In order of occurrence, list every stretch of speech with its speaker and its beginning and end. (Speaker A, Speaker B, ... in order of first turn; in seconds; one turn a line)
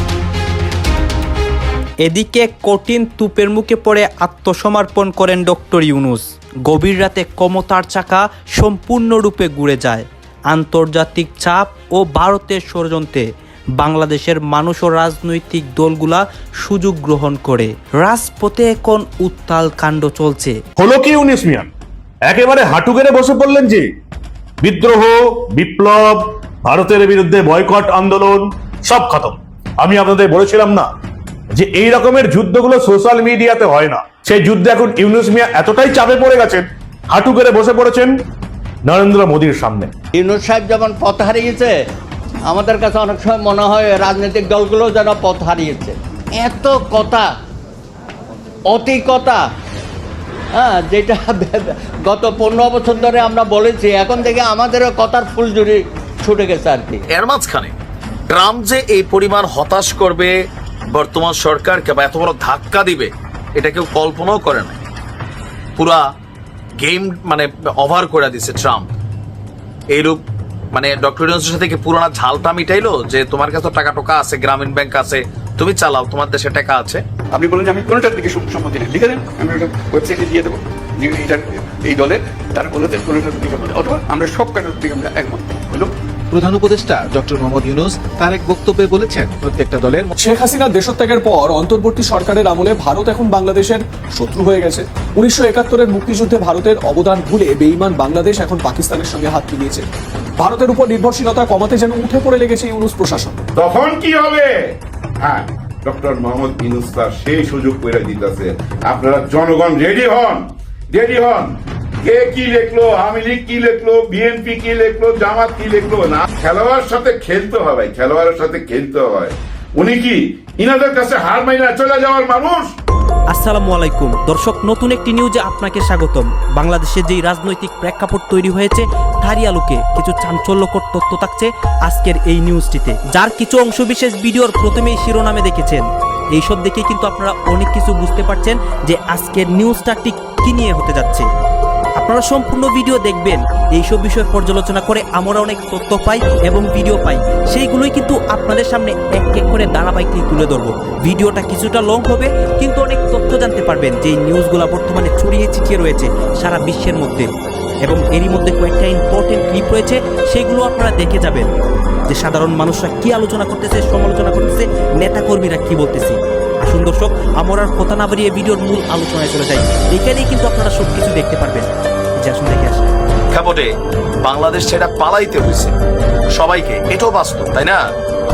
Speaker A: 2.0-13.2
Speaker A: 13.8-20.6
Speaker B: 20.8-21.7
Speaker B: 22.2-23.9
Speaker B: 24.6-30.9
Speaker B: 31.5-38.1
Speaker B: 38.9-39.9
Speaker C: 40.1-41.8
Speaker C: 42.5-47.3
Speaker C: 48.7-49.4
Speaker C: 50.6-57.1
Speaker D: 57.1-57.7
Speaker D: 58.3-60.4
Speaker D: 60.9-64.8
Speaker D: 65.8-66.0
Speaker D: 66.8-68.9
Speaker D: 69.9-70.2
Speaker D: 70.7-77.0
Speaker E: 77.3-85.9
Speaker F: 86.3-90.1
Speaker G: 90.2-99.9
Speaker G: 100.4-103.4
Speaker H: 103.5-122.7
Speaker A: 123.3-135.8
Speaker A: 136.4-141.2
Speaker A: 142.0-157.3
Speaker A: 157.8-161.5
Speaker A: 162.1-171.7
Speaker A: 172.2-172.9
Speaker D: 173.3-173.7
Speaker D: 174.2-175.8
Speaker D: 176.3-177.8